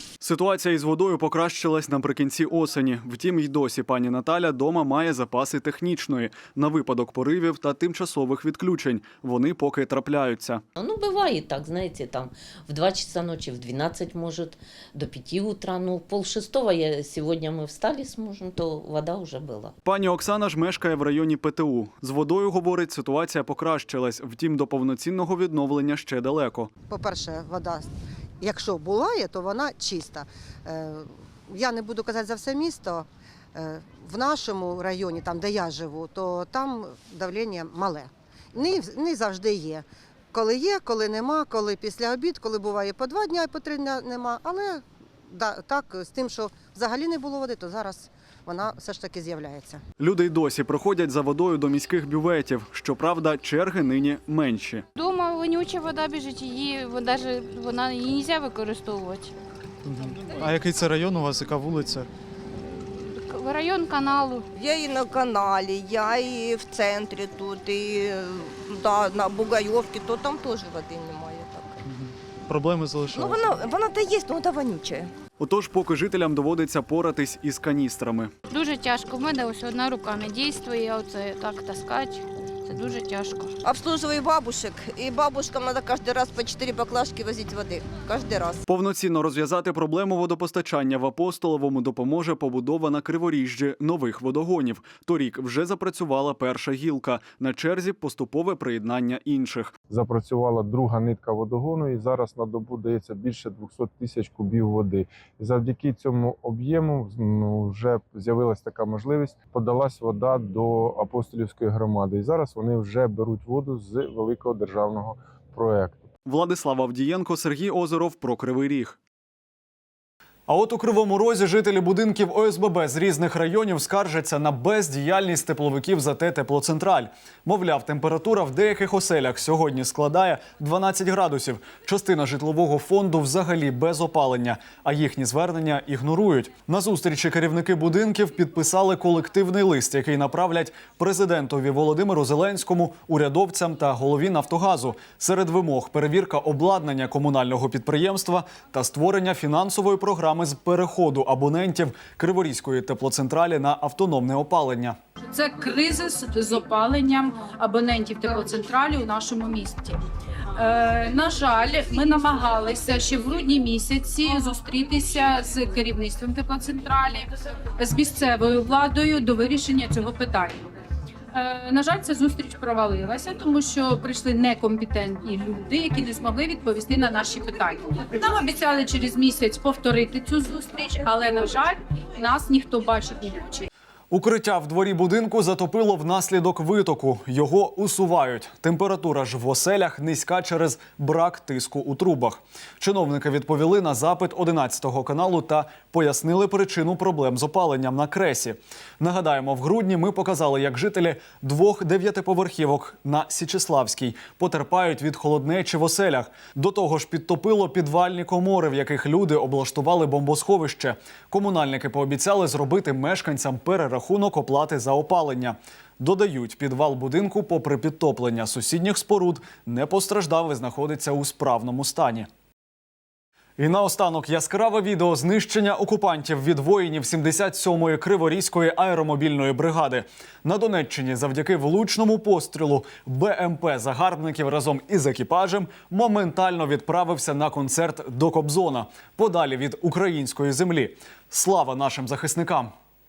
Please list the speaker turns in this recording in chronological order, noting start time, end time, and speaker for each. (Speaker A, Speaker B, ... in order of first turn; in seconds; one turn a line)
Speaker A: 0.2-10.6
Speaker B: 10.8-19.7
Speaker A: 19.8-26.7
Speaker C: 26.9-27.9
Speaker C: 28.4-49.8
Speaker A: 50.0-54.8
Speaker D: 55.0-59.3
Speaker E: 59.8-62.1
Speaker D: 62.8-64.5
Speaker F: 64.5-71.8
Speaker E: 71.9-73.5
Speaker F: 73.1-75.1
Speaker A: 75.4-78.3
Speaker D: 78.5-83.5
Speaker F: 83.6-88.6
Speaker A: 88.7-99.7
Speaker G: 99.9-116.0
Speaker A: 116.2-119.0
Speaker A: 120.5-154.9
Speaker H: 155.3-160.0
Speaker H: 160.6-167.2
Speaker H: 167.8-170.7
Speaker H: 171.3-183.7
Speaker A: 184.1-222.3
Speaker A: 223.6-242.7